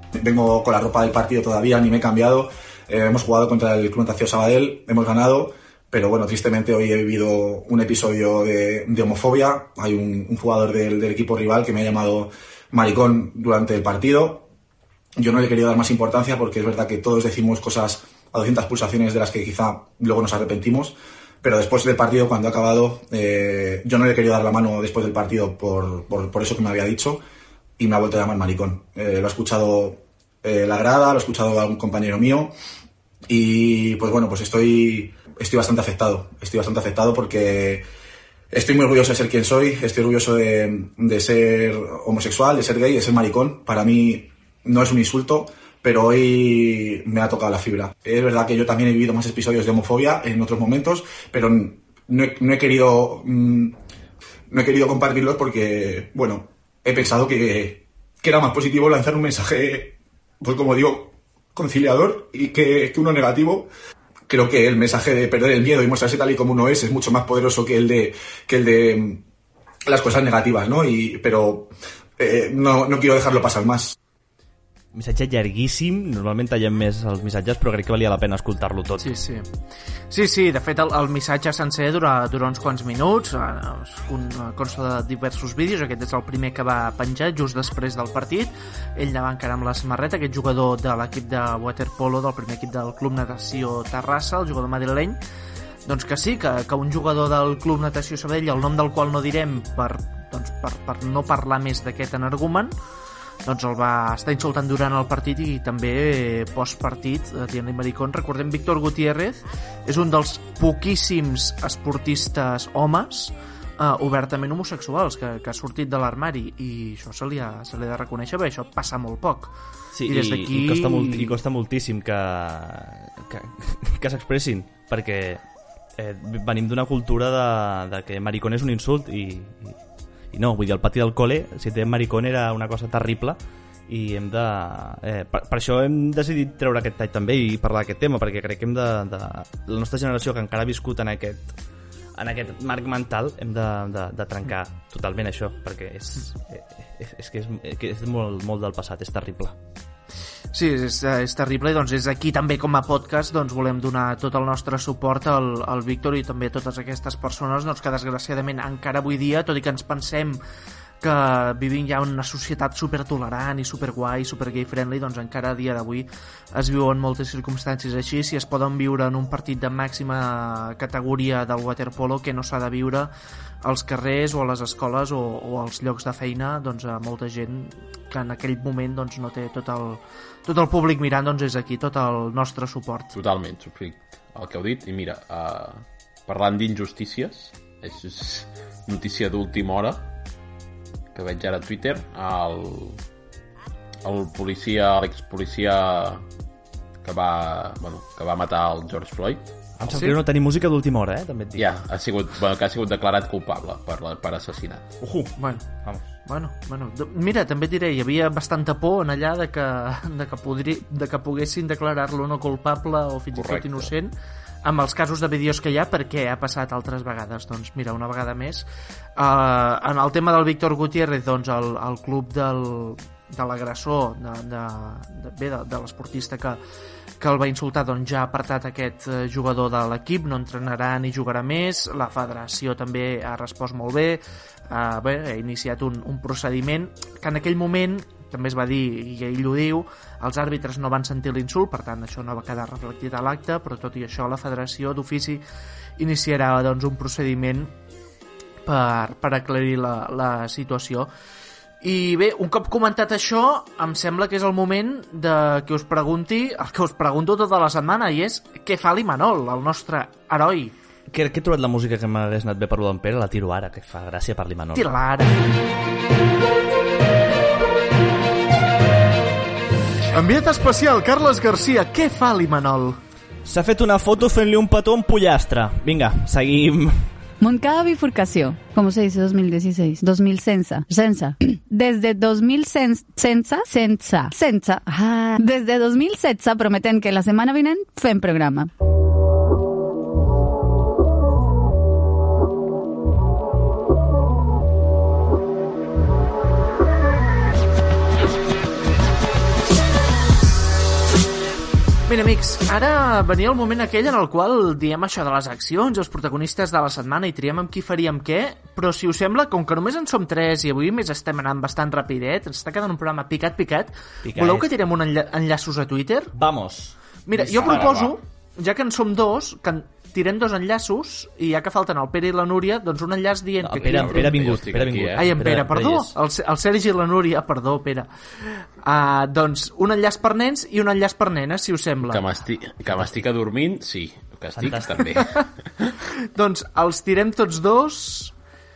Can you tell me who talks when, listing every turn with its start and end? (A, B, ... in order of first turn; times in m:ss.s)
0:00.2-0:14.5 A
0:15.2-0:27.2 A
0:27.8-0:32.5 A
0:33.3-0:37.8 A
0:38.5-0:53.8 A
0:54.5-1:03.7 A
1:04.3-1:09.2 A
1:09.9-1:13.9 A
1:14.9-1:19.1 B
1:19.0-1:19.4 C
1:20.1-1:35.2 C
1:35.8-1:42.7 C
1:43.4-1:59.5 C
1:59.9-2:05.4 B
2:00.0-2:01.4 C
2:06.0-2:09.8 B
2:10.3-2:21.5 B
2:22.2-2:29.6 B
2:30.5-2:40.4 C
2:41.0-2:53.1 C
2:53.6-3:03.1 C
3:03.1-3:10.0 D
3:11.1-3:13.0 D
3:14.0-3:16.2 D
3:17.0-3:19.4 D
3:19.8-3:21.7 B
3:19.9-3:20.2 C
3:21.6-3:24.8 D
3:25.0-3:25.3 B
3:25.4-3:25.6 C
3:26.2-3:34.1 C
3:33.3-3:33.9 D
3:34.6-3:38.6 C
3:39.2-3:46.6 C
3:47.2-4:05.4 C
4:06.0-4:07.7 C
4:08.6-4:11.1 C
4:11.8-4:20.7 C
4:21.1-4:24.9 B
4:24.7-4:25.4 C
4:30.1-4:33.0 C
4:33.4-4:37.0 B
4:37.4-4:48.7 E
5:02.1-5:16.3 C
5:14.2-5:14.7 B
5:16.3-5:17.9 B
5:17.3-5:24.4 C
5:17.6-5:18.2 D
5:23.6-5:26.1 B
5:23.7-5:25.2 D
5:25.2-5:28.1 C
5:28.8-5:32.3 C
5:32.0-5:35.9 D
5:34.5-5:35.2 B
5:36.3-5:38.3 C